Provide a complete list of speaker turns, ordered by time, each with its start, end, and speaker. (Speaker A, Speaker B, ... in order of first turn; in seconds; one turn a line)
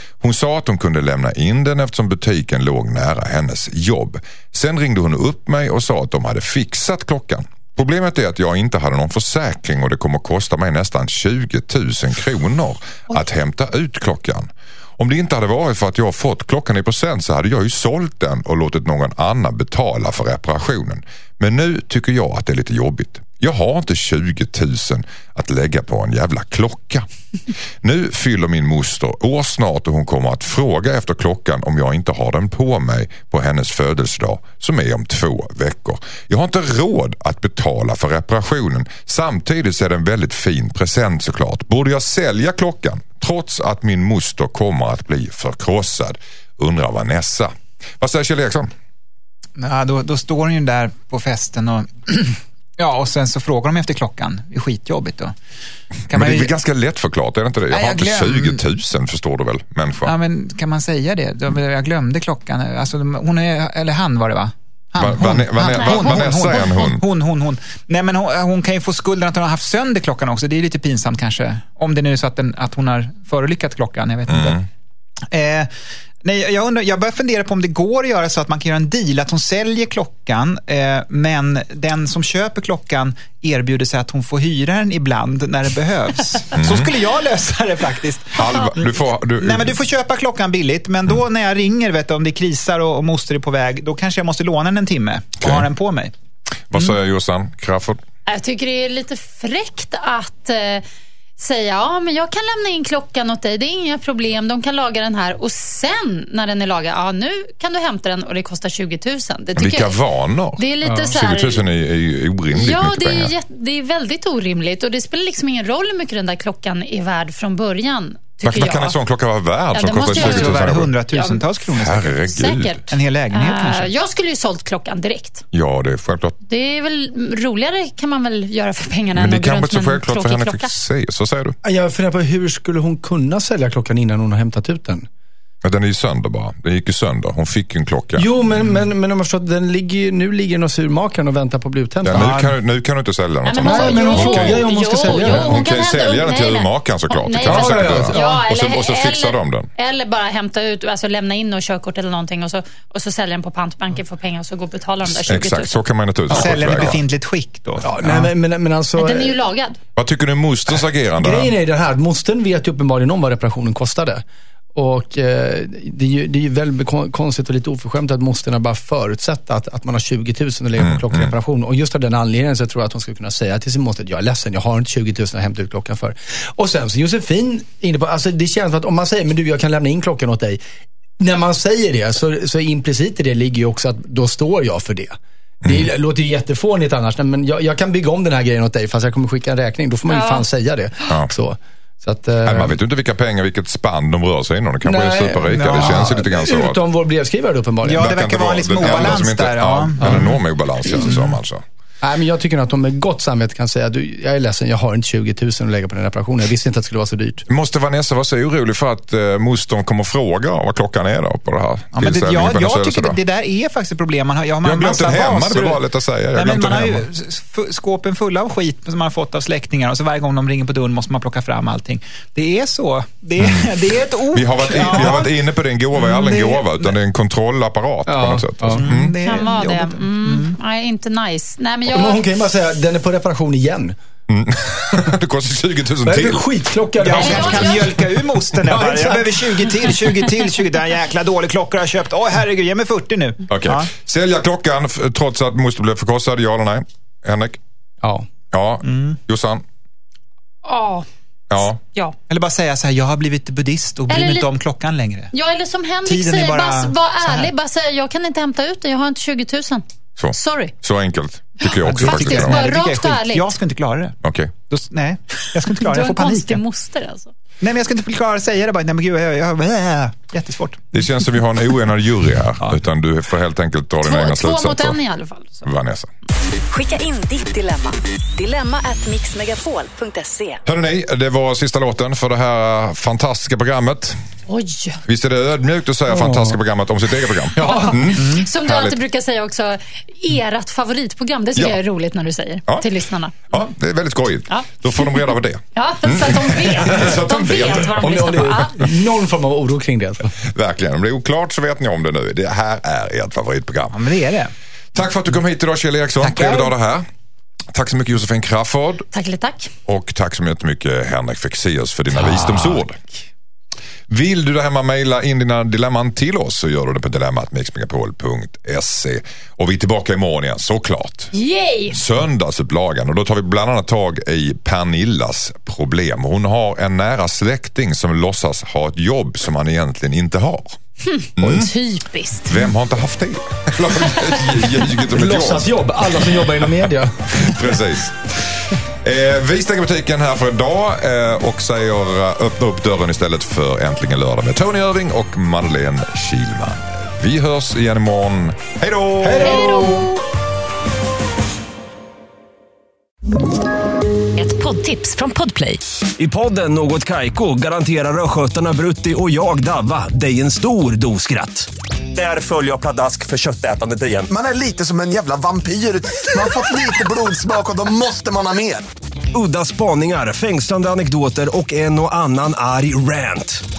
Speaker A: 0.2-27.1
Speaker A: 27.8-48.7
Speaker B: 49.6-55.3
Speaker B: 56.1-56.5
Speaker A: 56.1-60.1
Speaker B: 57.7-58.6
Speaker B: 60.0-74.6
Speaker A: 65.0-67.0
Speaker C: 65.8-66.8
Speaker A: 74.3-74.6
Speaker B: 75.3-75.7
Speaker B: 76.2-96.1
Speaker A: 86.5-86.9
Speaker A: 88.3-89.7
Speaker A: 96.7-98.0
Speaker C: 98.3-100.8
Speaker C: 101.4-110.0
Speaker A: 109.5-113.3
Speaker C: 110.6-111.6
Speaker D: 110.8-111.1
Speaker C: 112.5-119.0
Speaker A: 118.4-120.9
Speaker C: 119.7-121.4
Speaker B: 120.0-122.2
Speaker A: 121.7-122.8
Speaker C: 122.2-125.4
Speaker B: 122.9-123.9
Speaker A: 125.5-126.4
Speaker C: 126.5-130.7
Speaker A: 129.2-131.6
Speaker D: 131.6-135.1
Speaker A: 135.6-138.3
Speaker D: 138.1-142.5
Speaker A: 142.0-149.7
Speaker B: 142.1-142.5
Speaker C: 143.4-155.8
Speaker D: 143.6-145.7
Speaker D: 147.4-148.4
Speaker A: 155.2-157.0
Speaker B: 156.3-158.2
Speaker D: 156.3-156.9
Speaker D: 157.8-159.4
Speaker C: 159.0-159.8
Speaker A: 159.9-161.5
Speaker D: 161.2-164.2
Speaker D: 164.7-180.6
Speaker A: 170.8-171.3
Speaker D: 181.2-192.8
Speaker A: 185.6-185.9
Speaker C: 190.1-190.4
Speaker A: 192.4-196.8
Speaker D: 194.8-198.2
Speaker B: 195.5-196.2
Speaker B: 197.8-201.4
Speaker A: 197.9-201.6
Speaker D: 198.8-199.2
Speaker D: 200.0-200.3
Speaker D: 202.0-207.4
Speaker A: 207.5-213.2
Speaker B: 211.9-215.8
Speaker A: 214.6-217.1
Speaker B: 216.3-225.3
Speaker A: 223.4-223.7
Speaker A: 224.3-229.1
Speaker B: 225.9-226.9
Speaker D: 228.1-228.9
Speaker B: 228.7-230.6
Speaker C: 229.2-232.2
Speaker D: 231.9-233.9
Speaker A: 234.3-236.4
Speaker D: 236.0-240.2
Speaker B: 237.0-243.9
Speaker C: 237.1-237.9
Speaker A: 243.5-247.6
Speaker A: 248.5-249.6
Speaker B: 248.8-249.2
Speaker C: 250.6-251.1
Speaker A: 251.5-251.8
Speaker B: 252.3-255.3
Speaker C: 254.1-254.5
Speaker C: 255.3-260.7
Speaker B: 256.1-257.5
Speaker A: 260.2-262.6
Speaker C: 261.6-263.5
Speaker B: 261.9-264.2
Speaker A: 264.2-264.5
Speaker B: 264.7-266.6
Speaker C: 265.8-267.3
Speaker B: 267.6-270.9
Speaker A: 270.9-275.0
Speaker C: 274.0-275.7
Speaker A: 275.6-276.1
Speaker E: 276.7-280.6
Speaker A: 280.6-284.2
Speaker C: 284.5-285.0
Speaker A: 285.0-289.0
Speaker D: 286.1-286.6
Speaker D: 287.5-288.1
Speaker C: 287.6-293.5
Speaker A: 293.5-298.5
Speaker C: 294.5-298.8
Speaker D: 298.0-300.3
Speaker A: 300.5-304.0
Speaker B: 303.9-304.5
Speaker A: 304.9-307.0
Speaker B: 306.2-306.7
Speaker A: 307.7-309.1
Speaker C: 309.1-309.7
Speaker A: 309.9-313.0
Speaker D: 312.1-312.8
Speaker A: 314.1-321.3
Speaker C: 321.3-322.0
Speaker A: 321.9-330.8
Speaker C: 331.0-332.7
Speaker A: 331.4-331.7
Speaker A: 332.4-336.7
Speaker D: 335.1-337.7
Speaker A: 337.3-349.7
Speaker D: 349.2-349.9
Speaker C: 349.4-350.2
Speaker C: 354.4-355.8
Speaker F: 356.2-364.3
Speaker G: 364.3-368.8
Speaker F: 369.3-373.6